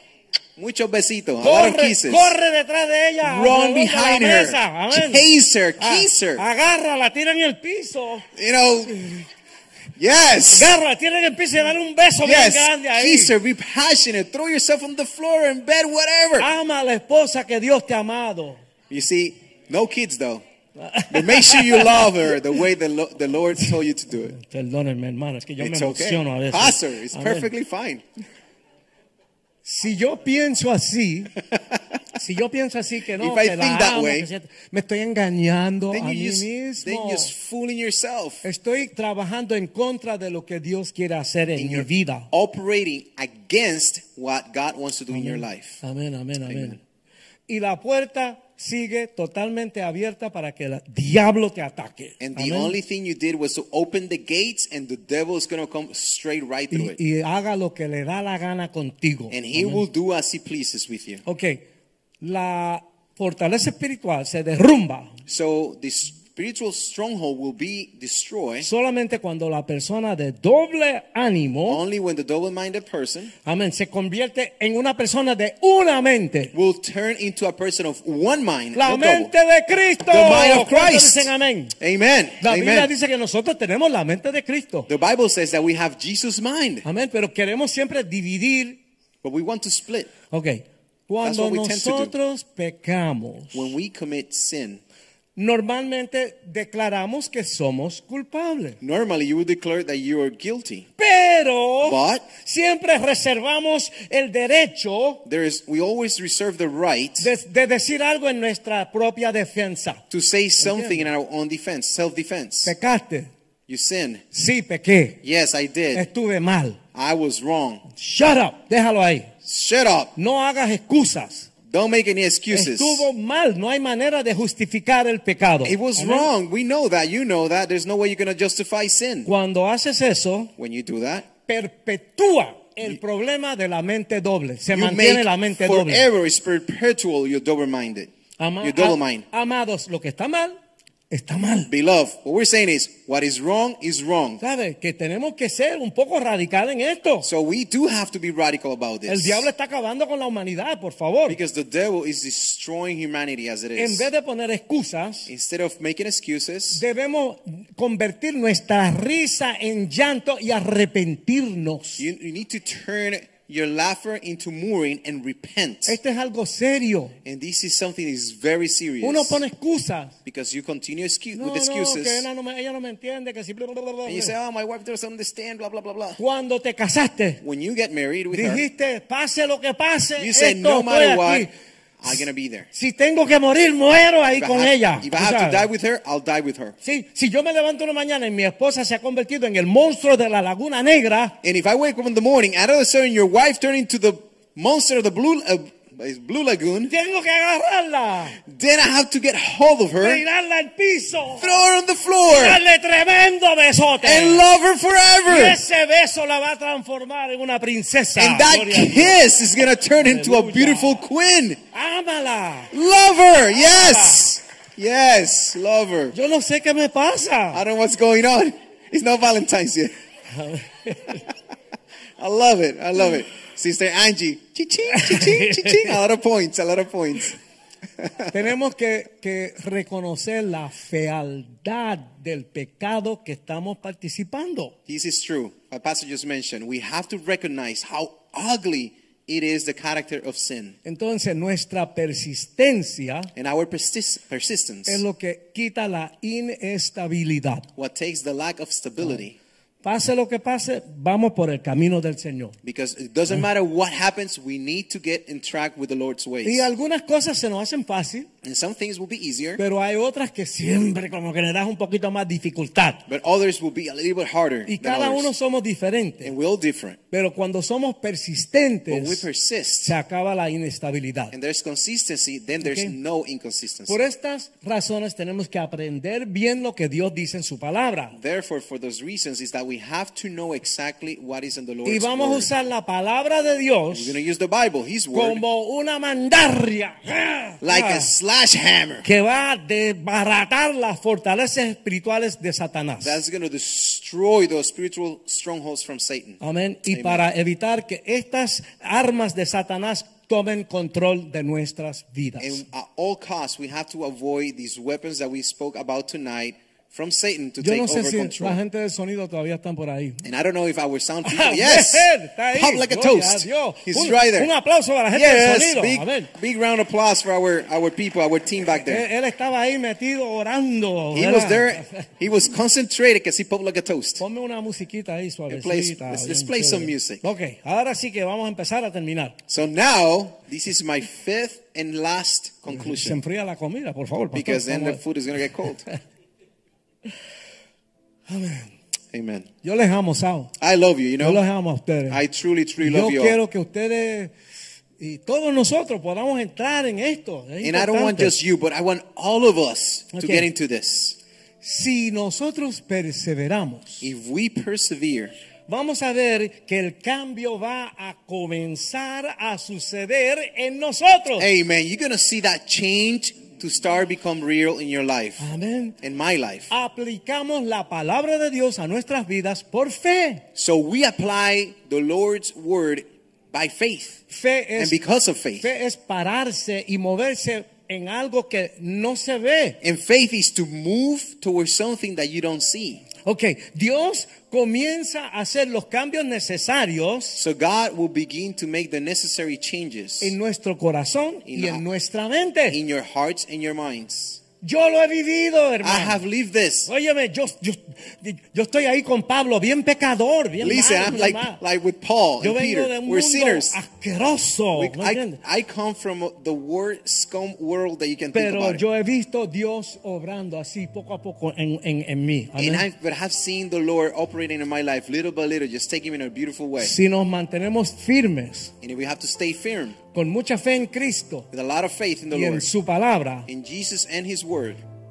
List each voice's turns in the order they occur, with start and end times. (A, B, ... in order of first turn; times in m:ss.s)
0:00.6-0:02.4 A
0:01.4-0:05.3 B
0:03.2-0:06.4 A
0:05.8-0:08.3 B
0:08.4-0:09.2 A
0:10.0-0:10.8 A
0:10.5-0:13.4 B
0:12.2-0:16.5 A
0:16.4-0:18.6 B
0:18.9-0:20.4 A
0:20.8-0:22.3 B
0:21.1-0:24.4 A
0:24.3-0:27.5 B
0:25.6-0:28.0 A
0:29.6-0:31.3 B
0:31.5-0:31.8 A
0:32.2-0:37.3 B
0:33.2-0:34.3 A
0:35.9-0:38.4 A
0:38.4-0:42.3 B
0:41.6-0:45.8 A
0:45.1-0:46.8 B
0:46.4-0:46.8 A
0:47.5-0:52.8 B
0:52.2-0:57.0 A
0:56.7-0:59.8 B
0:59.3-1:01.2 A
1:01.2-1:01.6 B
1:02.2-1:05.2 B
1:05.3-1:08.7 A
1:08.6-1:11.8 B
1:11.7-1:13.3 A
1:13.4-1:16.5 B
1:16.5-1:19.3 A
1:18.8-1:21.8 B
1:20.1-1:22.9 A
1:22.4-1:24.9 B
1:24.9-1:26.9 A
1:26.8-1:28.8 B
1:29.2-1:30.1 A
1:30.3-1:33.7 B
1:31.2-1:32.1 A
1:33.5-1:34.8 A
1:35.4-1:38.8 B
1:38.8-1:40.9 A
1:41.0-1:45.2 B
1:41.8-1:42.3 A
1:45.2-1:47.3 A
1:47.2-1:50.0 B
1:50.1-1:52.7 A
1:50.6-1:51.1 B
1:52.6-1:53.3 B
1:53.7-1:54.2 A
1:54.3-1:55.2 B
1:55.2-1:56.1 A
1:55.9-1:56.8 B
1:56.9-1:57.8 A
1:58.0-1:59.3 B
1:59.4-2:00.1 A
2:00.2-2:01.5 B
2:01.7-2:03.1 A
2:02.5-2:06.3 B
2:05.6-2:09.3 A
2:09.2-2:10.5 B
2:10.6-2:11.3 A
2:11.5-2:16.1 B
2:14.7-2:19.2 A
2:18.4-2:20.6 B
2:21.1-2:21.7 B
2:21.7-2:24.4 A
2:24.4-2:27.3 B
2:27.2-2:29.5 A
2:29.1-2:31.4 B
2:31.3-2:34.1 A
2:33.8-2:35.3 B
2:35.3-2:36.8 A
2:36.7-2:42.1 B
2:42.0-2:46.0 A
2:45.9-2:47.2 B
2:47.2-2:49.4 A
2:49.0-2:50.2 B
2:50.2-2:52.3 A
2:51.4-2:54.4 B
2:54.1-2:56.2 A
2:56.2-2:57.4 B
2:57.4-2:58.6 A
2:58.3-3:01.5 B
3:00.2-3:02.7 A
3:02.7-3:05.7 B
3:04.3-3:06.8 A
3:06.8-3:11.4 B
3:11.4-3:16.9 A
3:16.9-3:18.4 B
3:18.4-3:20.2 A
3:20.0-3:21.6 B
3:21.4-3:22.6 A
3:22.3-3:24.4 B
3:24.0-3:25.6 A
3:25.3-3:29.2 B
3:28.2-3:31.6 A
3:30.0-3:31.0 B
3:31.7-3:32.7 B
3:32.7-3:36.2 A
3:33.6-3:34.3 B
3:36.1-3:37.6 B
3:37.5-3:39.9 A
3:40.3-3:41.2 B
3:42.2-3:47.4 A
3:44.9-3:46.0 B
3:48.0-3:48.3 A
3:48.3-3:54.8 B
3:54.9-4:00.8 A
4:00.8-4:03.3 B
4:03.4-4:05.0 A
4:04.9-4:07.7 B
4:07.8-4:09.4 A
4:09.8-4:12.6 B
4:12.6-4:16.7 A
4:16.4-4:18.3 B
4:18.4-4:19.6 A
4:19.6-4:23.0 B
4:23.1-4:25.3 A
4:24.7-4:26.3 B
4:26.2-4:27.0 A
4:27.1-4:29.3 B
4:28.9-4:30.0 A
4:29.8-4:31.3 B
4:31.3-4:34.0 A
4:32.6-4:32.9 B
4:33.9-4:38.2 B
4:38.1-4:42.5 A
4:41.8-4:44.2 B
4:43.9-4:45.4 A
4:45.1-4:48.1 B
4:47.6-4:49.1 A
4:49.0-4:53.2 B
4:53.0-4:57.3 A
4:56.4-5:02.6 B
5:02.4-5:08.6 A
5:07.6-5:10.2 B
5:10.2-5:14.5 A
5:11.2-5:16.3 B
5:15.1-5:19.1 A
5:18.8-5:22.1 B
5:21.1-5:24.2 A
5:24.2-5:29.4 B
5:25.5-5:27.2 A
5:29.5-5:33.2 A
5:32.7-5:35.0 B
5:34.3-5:35.8 A
5:38.3-5:38.7 B
5:39.1-5:39.5 A
5:39.6-5:40.5 B
5:40.6-5:41.4 A
5:41.2-5:42.2 B
5:42.1-5:43.4 A
5:42.8-5:44.3 B
5:45.0-5:48.3 B
5:47.6-5:51.2 A
5:50.1-5:50.5 B
5:51.6-5:54.1 B
5:54.0-5:55.4 A
5:55.7-6:01.5 B
6:01.4-6:05.5 A
6:05.4-6:06.0 B
6:06.0-6:06.7 A
6:06.7-6:10.4 B
6:10.6-6:14.2 A
6:14.3-6:15.0 B
6:14.8-6:15.7 A
6:15.6-6:19.8 B
6:19.8-6:23.1 A
6:23.2-6:27.4 B
6:27.4-6:30.4 A
6:30.2-6:32.8 B
6:31.5-6:31.8 A
6:32.7-6:34.4 A
6:34.6-6:36.2 B
6:35.8-6:36.9 A
6:36.9-6:41.6 B
6:40.6-6:43.8 A
6:42.4-6:45.4 B
6:44.8-6:48.8 A
6:48.3-6:52.9 B
6:52.6-6:56.9 A
6:56.8-6:58.7 B
6:58.8-7:00.0 A
7:00.1-7:01.5 B
7:01.5-7:02.7 A
7:02.3-7:03.5 B
7:03.5-7:04.8 A